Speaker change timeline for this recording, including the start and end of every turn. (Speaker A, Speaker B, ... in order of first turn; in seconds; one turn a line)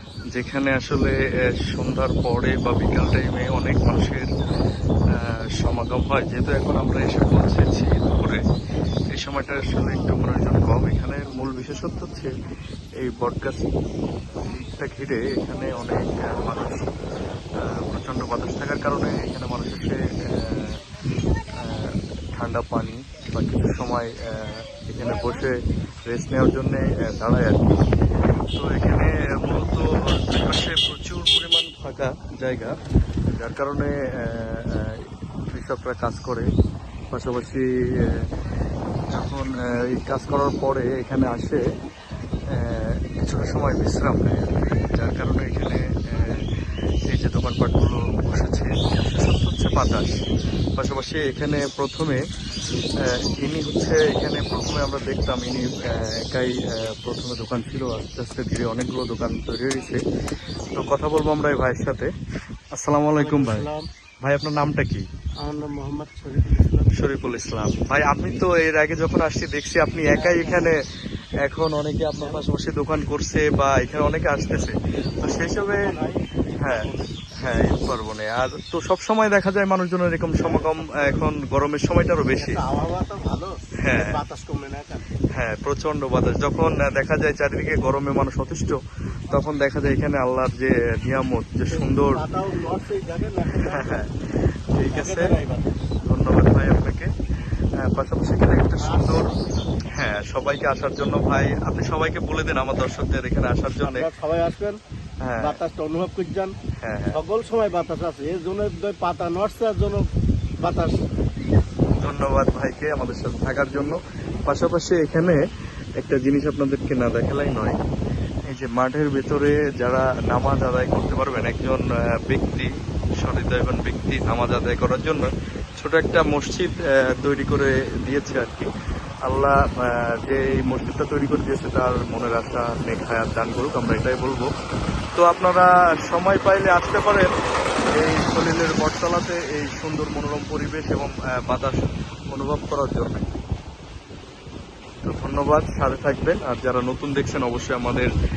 Speaker A: 0.3-4.2
Speaker A: 5.1-8.4
Speaker A: 9.1-12.3
Speaker A: 13.0-13.7
Speaker A: 14.4-16.9
Speaker A: 17.6-20.8
Speaker A: 21.6-27.8
Speaker A: 28.5-32.7
Speaker A: 33.3-36.5
Speaker A: 37.1-38.3
Speaker A: 39.1-41.6
Speaker A: 42.5-46.5
Speaker A: 47.1-50.2
Speaker A: 50.8-52.2
Speaker A: 53.0-60.0
Speaker A: 60.7-62.1
Speaker A: 62.8-63.7
Speaker B: 63.1-63.8
Speaker A: 64.2-65.0
Speaker B: 65.4-66.9
Speaker A: 66.9-70.8
Speaker B: 70.1-70.7
Speaker A: 71.4-75.9
Speaker B: 72.2-72.4
Speaker B: 75.2-77.1
Speaker A: 76.6-82.6
Speaker B: 80.4-81.2
Speaker B: 82.4-85.0
Speaker A: 83.8-84.2
Speaker A: 85.3-88.8
Speaker A: 89.3-92.2
Speaker B: 91.7-94.0
Speaker A: 93.6-94.2
Speaker A: 94.7-95.3
Speaker B: 94.9-95.8
Speaker A: 96.0-97.1
Speaker A: 97.8-99.3
Speaker B: 98.8-99.5
Speaker A: 99.9-104.1
Speaker B: 103.8-104.8
Speaker A: 105.2-105.6
Speaker B: 105.4-106.5
Speaker A: 106.8-107.2
Speaker B: 107.1-110.0
Speaker B: 110.6-111.0
Speaker A: 112.0-115.4
Speaker A: 116.0-117.8
Speaker A: 118.5-122.7
Speaker A: 123.2-128.7
Speaker A: 129.3-134.5
Speaker A: 135.2-137.3
Speaker A: 137.9-141.8
Speaker A: 142.3-143.3
Speaker A: 145.0-148.1